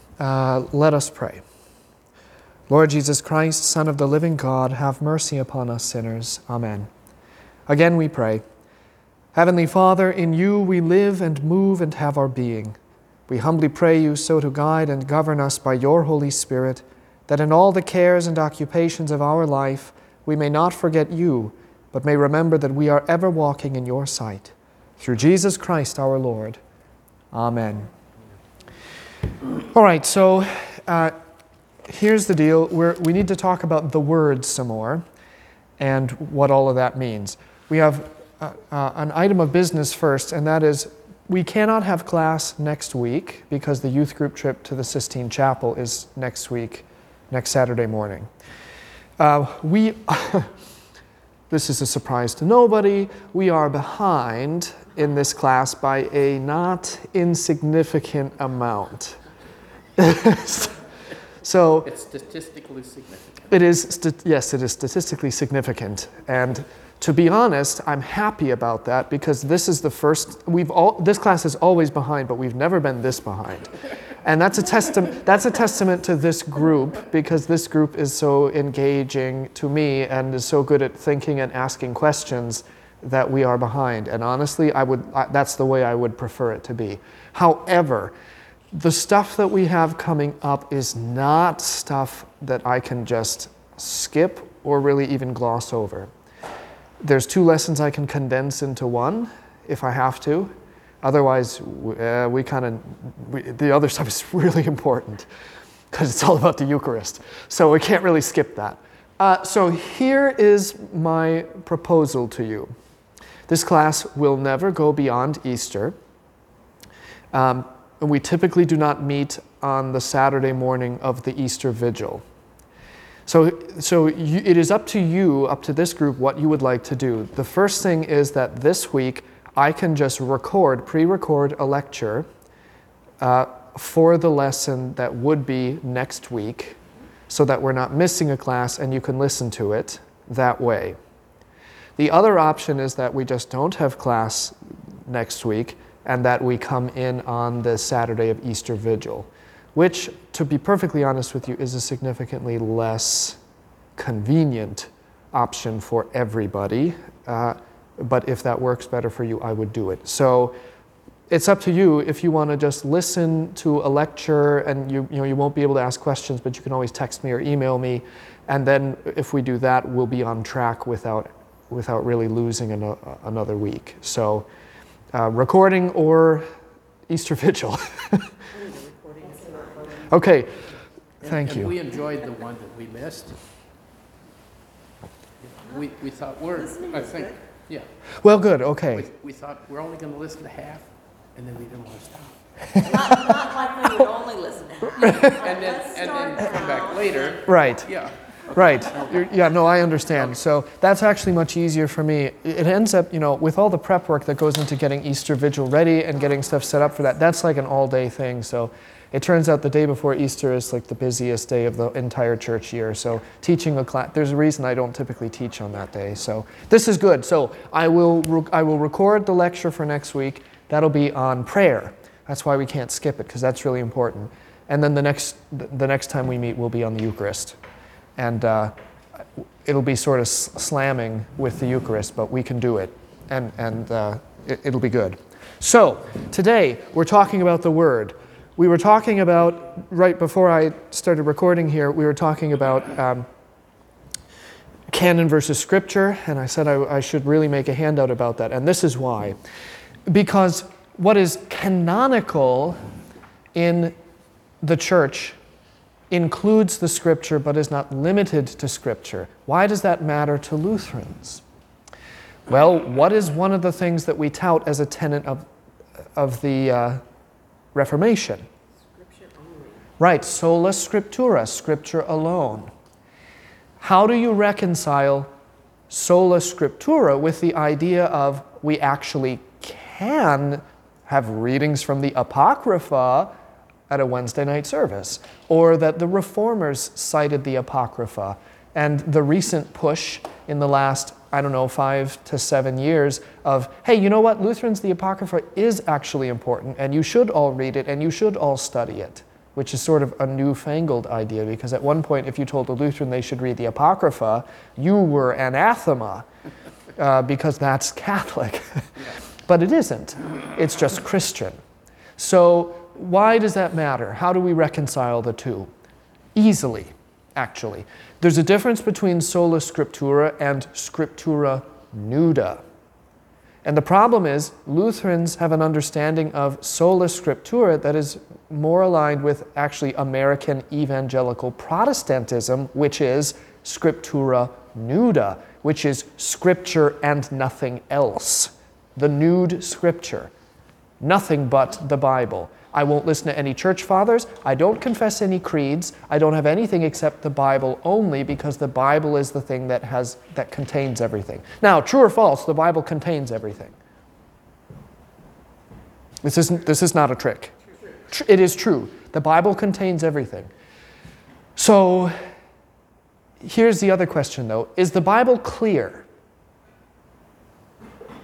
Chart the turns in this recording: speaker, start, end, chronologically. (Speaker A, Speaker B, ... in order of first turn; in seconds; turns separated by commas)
Speaker A: 0.2-1.4, Speaker A: 2.7-6.9, Speaker A: 7.7-8.4, Speaker A: 9.3-12.8, Speaker A: 13.3-26.6, Speaker A: 27.3-27.9, Speaker A: 29.7-31.1, Speaker A: 31.9-35.0, Speaker A: 35.8-48.3, Speaker A: 49.2-50.5, Speaker A: 51.5-59.2, Speaker A: 60.0-60.8, Speaker A: 61.4-61.9, Speaker B: 61.8-63.5, Speaker A: 63.5-73.7, Speaker A: 74.2-88.1, Speaker A: 88.7-96.1, Speaker A: 97.0-105.3, Speaker A: 105.9-112.7, Speaker A: 113.5-116.0, Speaker A: 117.3-122.2, Speaker A: 123.3-132.3, Speaker A: 133.2-136.8, Speaker A: 137.3-141.0, Speaker A: 142.0-153.4, Speaker A: 154.0-160.6, Speaker A: 161.3-174.5, Speaker A: 175.1-176.5, Speaker A: 177.1-178.3, Speaker C: 178.5-180.2, Speaker A: 180.1-181.8, Speaker B: 181.2-183.4, Speaker B: 185.4-187.9, Speaker C: 186.6-187.3, Speaker A: 188.2-189.1, Speaker B: 188.9-193.4, Speaker C: 192.8-197.4, Speaker A: 195.0-195.4, Speaker B: 195.1-199.2, Speaker A: 197.4-198.0, Speaker A: 198.5-227.6, Speaker A: 228.2-228.7, Speaker A: 229.7-243.3, Speaker A: 244.9-249.4, Speaker A: 250.1-252.8, Speaker A: 253.6-253.9, Speaker A: 254.6-255.4, Speaker A: 256.1-261.4, Speaker A: 262.5-265.5, Speaker A: 266.2-267.0, Speaker A: 267.7-268.5, Speaker C: 268.8-269.9, Speaker A: 270.0-272.7, Speaker A: 273.8-275.3, Speaker A: 275.9-283.3, Speaker A: 283.9-306.3, Speaker A: 307.0-308.9, Speaker A: 309.5-311.6, Speaker A: 312.2-315.7, Speaker A: 316.4-322.6, Speaker A: 323.6-340.3, Speaker A: 341.0-353.8, Speaker A: 356.2-357.5, Speaker A: 358.1-360.5, Speaker A: 361.6-362.1, Speaker A: 363.4-366.1